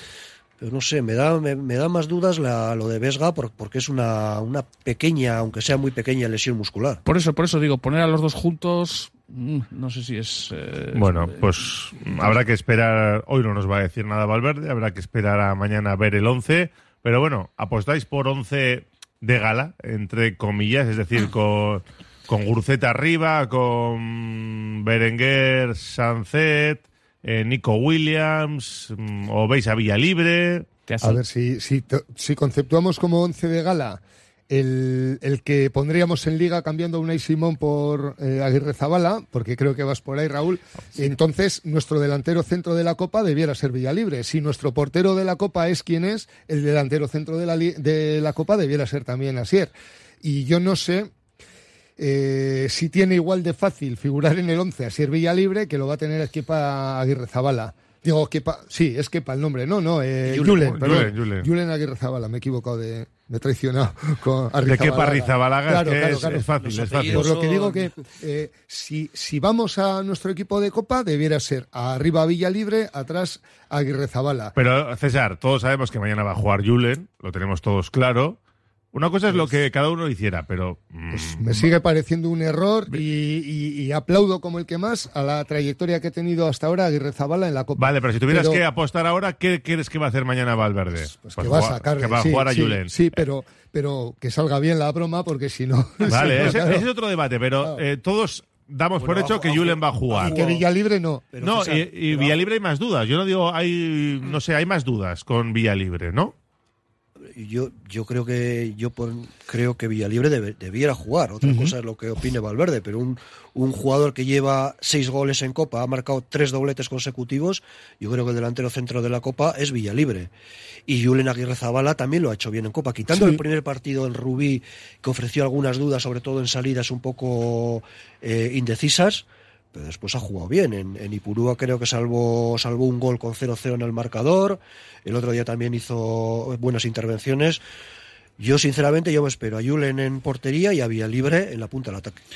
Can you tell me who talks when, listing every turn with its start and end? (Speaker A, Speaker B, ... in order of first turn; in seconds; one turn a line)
Speaker A: 0.6-7.0
Speaker B: 7.0-12.4
Speaker C: 10.9-30.7
Speaker B: 30.9-31.2
Speaker D: 31.0-51.1
Speaker D: 52.0-66.5
Speaker A: 60.2-61.1
Speaker C: 60.6-61.5
Speaker C: 64.6-67.3
Speaker A: 66.2-67.9
Speaker D: 67.0-74.5
Speaker C: 74.5-78.4
Speaker C: 78.9-81.7
Speaker D: 81.1-88.6
Speaker C: 87.8-93.0
Speaker D: 90.9-96.9
Speaker C: 96.0-100.4
Speaker A: 99.0-100.6
Speaker D: 100.2-101.2
Speaker A: 101.3-102.4
Speaker C: 101.4-106.3
Speaker A: 107.2-120.3
Speaker D: 111.4-111.7
Speaker A: 120.9-137.6
Speaker D: 123.1-123.4
Speaker A: 138.4-142.2